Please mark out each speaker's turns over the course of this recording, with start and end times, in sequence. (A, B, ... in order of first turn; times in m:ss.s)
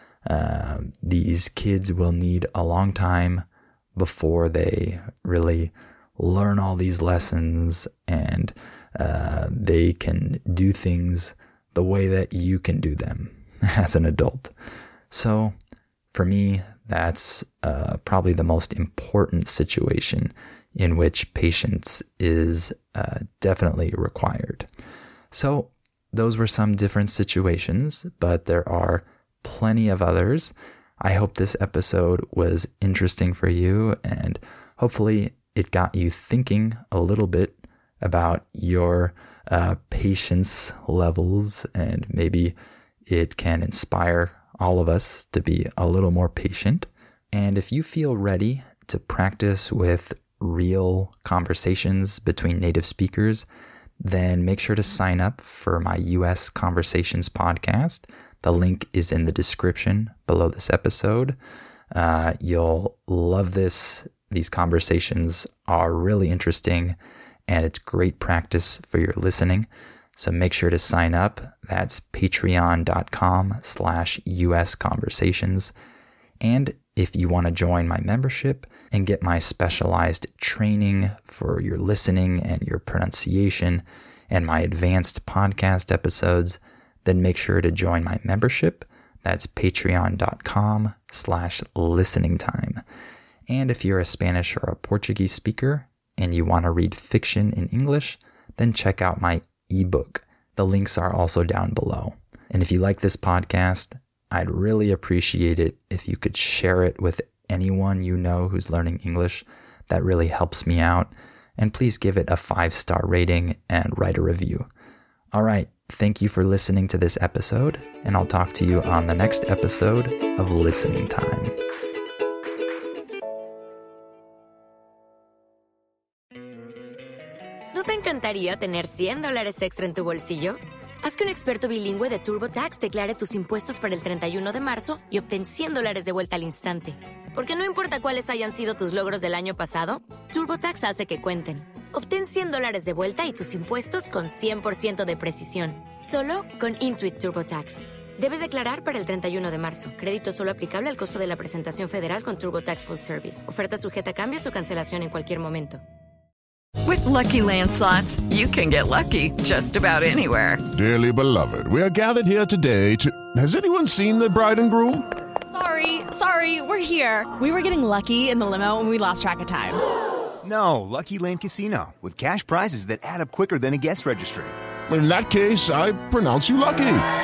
0:00.2-0:14.5 A
0:15.1-0:15.5 A
0:16.1-0:24.7 A
0:25.3-0:53.5 A
0:54.0-1:01.4 A
1:01.9-1:15.7 A
1:16.4-1:32.8 A
1:33.5-1:54.7 A
1:55.3-2:01.6 A
2:07.7-2:35.8 B
2:36.8-2:40.6 C
2:40.7-2:45.1 D
2:45.5-2:49.8 E
2:50.4-2:54.5 F
2:54.9-2:57.0 D